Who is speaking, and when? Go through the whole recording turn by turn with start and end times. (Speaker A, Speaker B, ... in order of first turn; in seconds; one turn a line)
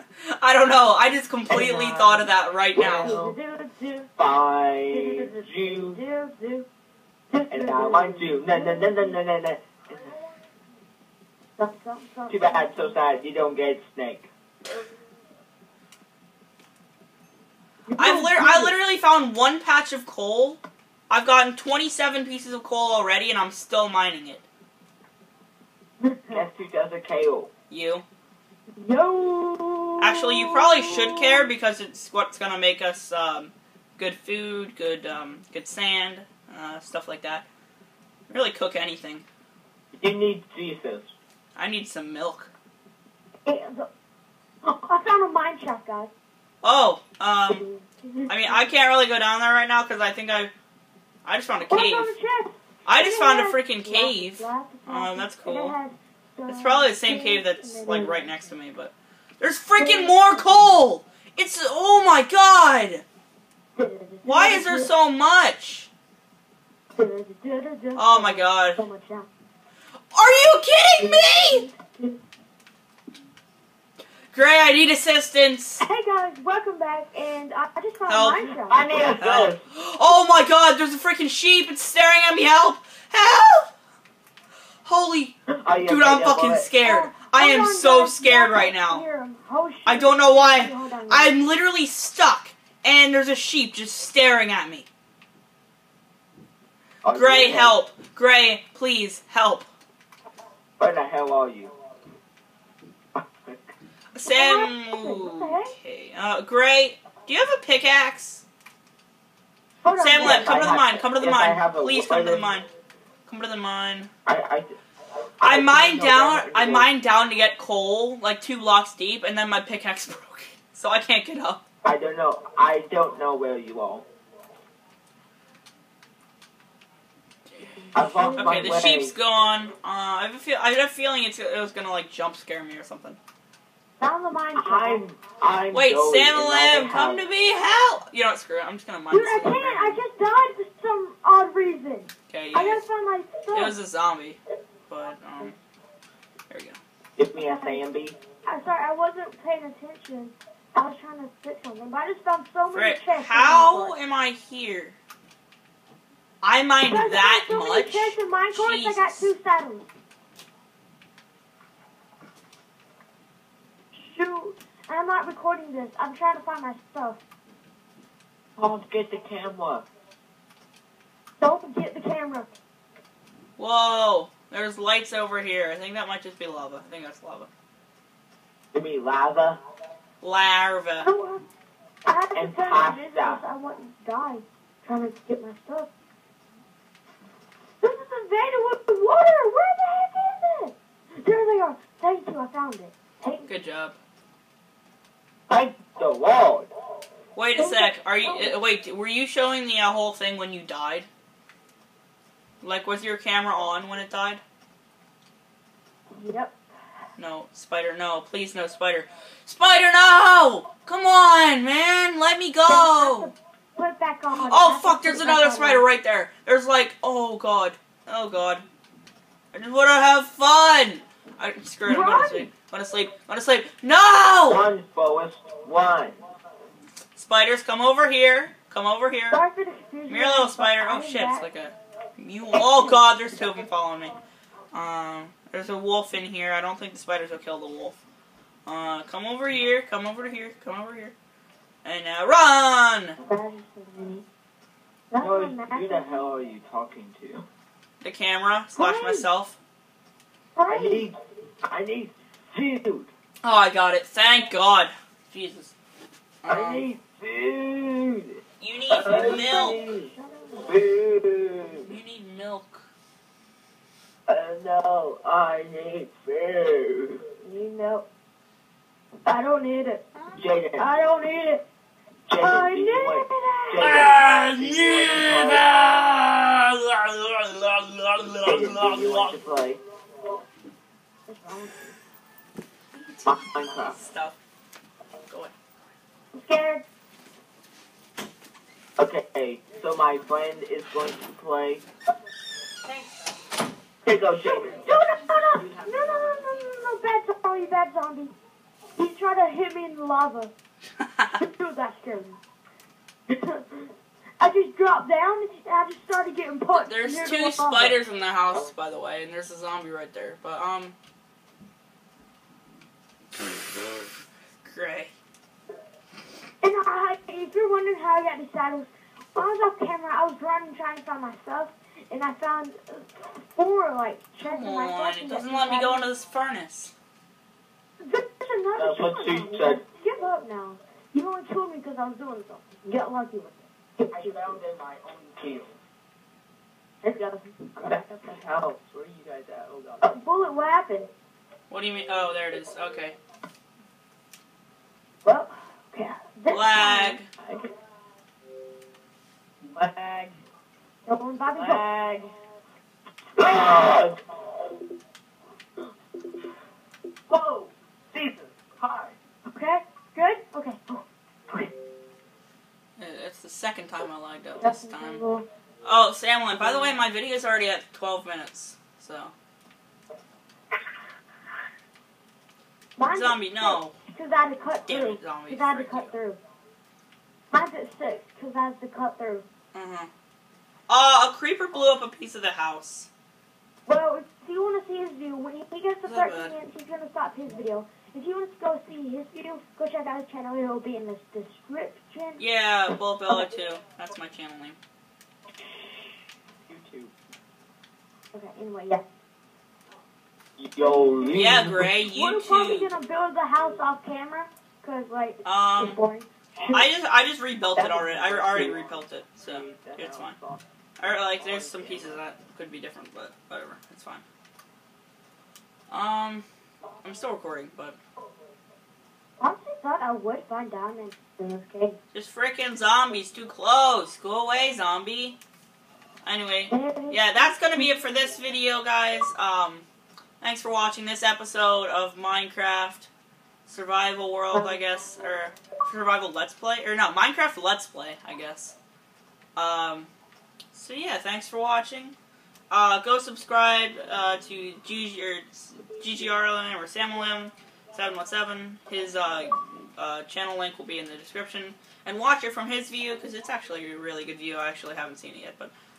Speaker A: 0.2-3.2
Speaker B: 1.5-3.4
Speaker C: 2.8-4.1
Speaker B: 4.2-6.0
Speaker C: 4.9-6.7
Speaker C: 7.3-9.2
Speaker B: 7.5-9.9
Speaker C: 11.6-12.9
Speaker B: 12.3-14.3
Speaker C: 17.9-18.8
Speaker A: 18.0-24.4
Speaker C: 26.0-26.4
Speaker B: 26.3-27.5
Speaker A: 27.7-28.0
Speaker C: 28.8-31.5
Speaker A: 30.0-37.5
Speaker A: 38.3-39.2
Speaker B: 40.0-41.1
Speaker A: 41.5-42.5
Speaker C: 43.4-43.9
Speaker C: 44.6-46.1
Speaker A: 46.6-47.6
Speaker C: 47.5-48.7
Speaker A: 48.3-50.5
Speaker A: 51.2-52.1
Speaker C: 51.7-58.2
Speaker A: 52.9-55.7
Speaker A: 56.5-63.0
Speaker C: 59.8-60.8
Speaker C: 63.8-64.9
Speaker A: 64.2-65.9
Speaker C: 67.0-69.3
Speaker A: 68.0-68.8
Speaker A: 70.1-71.6
Speaker C: 71.0-72.2
Speaker A: 74.3-75.8
Speaker C: 75.8-78.8
Speaker A: 78.1-83.7
Speaker B: 78.6-79.6
Speaker A: 84.8-89.0
Speaker B: 85.6-86.7
Speaker C: 86.8-91.4
Speaker A: 89.8-94.9
Speaker B: 97.0-97.7
Speaker A: 97.1-99.7
Speaker B: 100.8-101.7
Speaker B: 103.2-103.7
Speaker A: 104.1-108.4
Speaker C: 104.2-105.7
Speaker C: 109.8-110.8
Speaker A: 110.0-112.7
Speaker B: 110.2-112.5
Speaker A: 113.2-114.1
Speaker B: 114.2-114.7
Speaker A: 115.4-121.6
Speaker B: 115.4-116.9
Speaker B: 121.8-124.0
Speaker A: 127.5-133.2
Speaker C: 127.8-128.9
Speaker B: 127.9-129.1
Speaker C: 134.0-135.0
Speaker B: 134.6-137.2
Speaker A: 135.7-140.0
Speaker C: 139.1-143.8
Speaker A: 142.3-142.8
Speaker A: 143.5-145.6
Speaker A: 146.5-146.8
Speaker B: 147.2-148.2
Speaker C: 147.4-147.8
Speaker C: 148.4-153.9
Speaker A: 152.7-155.0
Speaker A: 156.4-159.3
Speaker C: 156.8-159.9
Speaker C: 164.0-167.2
Speaker B: 168.6-169.8
Speaker C: 171.4-172.5
Speaker A: 173.6-177.5
Speaker B: 178.7-179.6
Speaker A: 180.2-181.1
Speaker C: 181.0-181.4
Speaker C: 182.1-185.9
Speaker B: 182.3-183.4
Speaker C: 187.8-193.5
Speaker A: 193.4-194.0
Speaker B: 195.5-196.7
Speaker A: 197.3-201.1
Speaker C: 197.6-198.5
Speaker A: 202.6-204.4
Speaker C: 206.2-206.6
Speaker A: 207.2-213.3
Speaker C: 212.7-215.8
Speaker A: 214.3-218.6
Speaker A: 219.5-224.6
Speaker C: 221.9-222.5
Speaker B: 224.5-226.2
Speaker A: 227.2-229.4
Speaker C: 229.3-231.5
Speaker A: 230.1-234.2
Speaker C: 232.5-233.1
Speaker A: 234.7-238.0
Speaker A: 238.7-241.1
Speaker A: 241.8-243.2
Speaker C: 243.2-244.2
Speaker C: 245.1-246.3
Speaker B: 245.2-247.4
Speaker A: 248.0-249.6
Speaker C: 248.8-249.3
Speaker C: 250.6-251.1
Speaker B: 250.7-253.1
Speaker A: 253.4-255.7
Speaker A: 256.4-256.8
Speaker B: 256.5-260.1
Speaker A: 258.6-259.8
Speaker C: 259.1-260.7
Speaker B: 260.6-261.9
Speaker A: 261.8-262.9
Speaker B: 264.3-267.2
Speaker C: 267.4-268.1
Speaker C: 269.2-270.1
Speaker B: 270.4-270.9
Speaker C: 270.8-271.6
Speaker B: 272.3-275.6
Speaker C: 272.4-274.2
Speaker A: 273.8-279.4
Speaker B: 278.4-279.8
Speaker C: 281.3-281.9
Speaker A: 282.9-284.4
Speaker B: 283.2-283.9
Speaker A: 285.3-285.5
Speaker C: 286.3-286.8
Speaker B: 289.0-291.8
Speaker B: 294.0-294.9
Speaker C: 294.4-298.3
Speaker C: 298.9-300.5
Speaker C: 301.3-302.4
Speaker C: 303.3-303.9
Speaker C: 304.4-308.0
Speaker A: 306.7-310.9
Speaker A: 314.6-315.1
Speaker C: 316.6-326.0
Speaker A: 324.4-326.9
Speaker C: 328.0-334.6
Speaker B: 328.8-329.8
Speaker B: 334.1-335.8
Speaker C: 337.0-338.4
Speaker B: 337.8-340.1
Speaker C: 340.0-341.1
Speaker A: 341.7-343.2
Speaker C: 345.2-347.2
Speaker A: 346.5-347.3
Speaker B: 349.6-350.4
Speaker C: 351.1-351.8
Speaker B: 351.6-352.3
Speaker B: 353.4-354.2
Speaker B: 357.3-359.1
Speaker C: 359.5-361.7
Speaker A: 363.0-365.2
Speaker C: 364.6-365.4
Speaker A: 365.8-369.3
Speaker C: 366.5-367.0
Speaker C: 373.0-376.4
Speaker A: 373.1-373.9
Speaker A: 374.9-376.1
Speaker C: 377.5-379.4
Speaker A: 379.7-380.1
Speaker A: 380.9-383.1
Speaker C: 383.9-392.4
Speaker A: 386.0-386.5
Speaker A: 392.4-394.8
Speaker B: 396.7-397.1
Speaker C: 398.3-399.0
Speaker B: 400.6-401.9
Speaker C: 400.9-401.4
Speaker A: 401.3-402.9
Speaker C: 402.0-406.3
Speaker A: 405.4-406.0
Speaker B: 406.6-406.9
Speaker A: 406.7-410.4
Speaker B: 407.7-410.6
Speaker A: 411.0-414.2
Speaker B: 411.4-412.2
Speaker A: 415.9-416.4
Speaker A: 417.0-418.0
Speaker C: 419.4-422.0
Speaker A: 422.1-425.4
Speaker A: 426.2-429.9
Speaker C: 426.7-427.9
Speaker A: 430.4-433.1
Speaker A: 433.6-438.8
Speaker C: 434.5-434.8
Speaker A: 439.6-440.1
Speaker A: 440.7-442.1
Speaker A: 442.7-455.7